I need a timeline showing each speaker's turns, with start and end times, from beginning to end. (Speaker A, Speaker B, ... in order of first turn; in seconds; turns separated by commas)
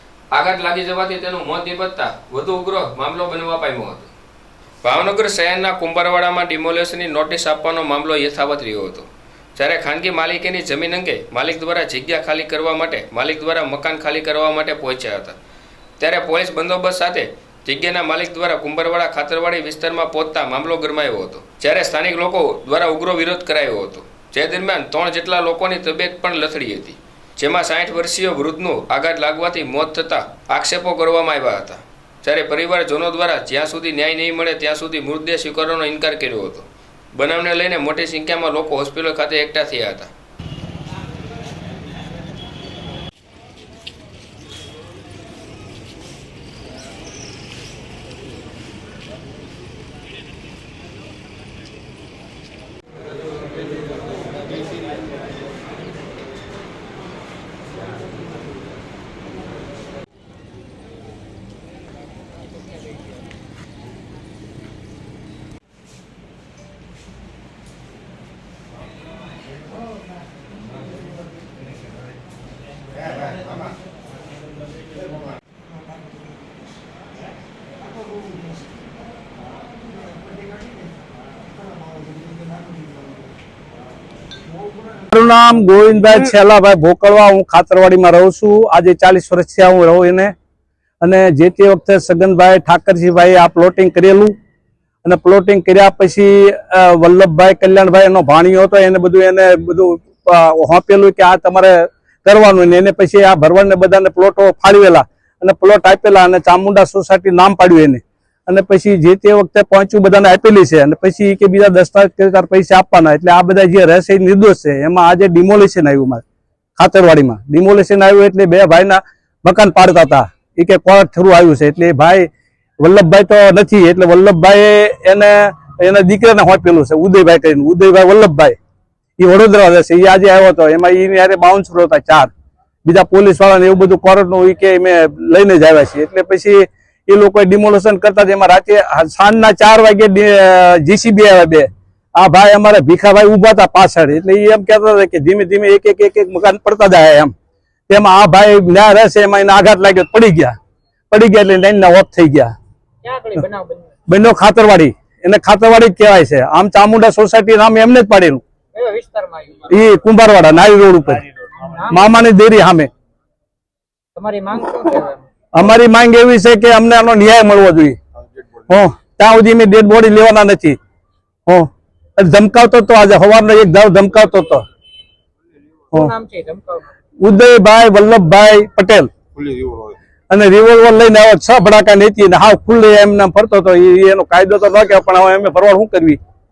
Speaker A: 0.3-4.1, Speaker A: 4.8-15.4, Speaker A: 16.0-40.1, Speaker B: 85.1-90.3, Speaker B: 91.0-94.3, Speaker B: 95.0-116.2, Speaker B: 116.8-122.3, Speaker B: 122.8-128.6, Speaker B: 129.2-132.3, Speaker B: 132.8-147.3, Speaker B: 147.9-150.6, Speaker B: 151.1-152.5, Speaker C: 153.0-153.9, Speaker B: 154.1-158.4, Speaker C: 158.8-159.7, Speaker B: 159.7-161.2, Speaker C: 161.6-162.1, Speaker B: 161.9-162.9, Speaker C: 164.2-165.3, Speaker B: 165.5-168.0, Speaker B: 168.7-170.8, Speaker B: 171.5-174.6, Speaker C: 175.9-176.9, Speaker B: 177.2-179.1, Speaker B: 180.3-186.2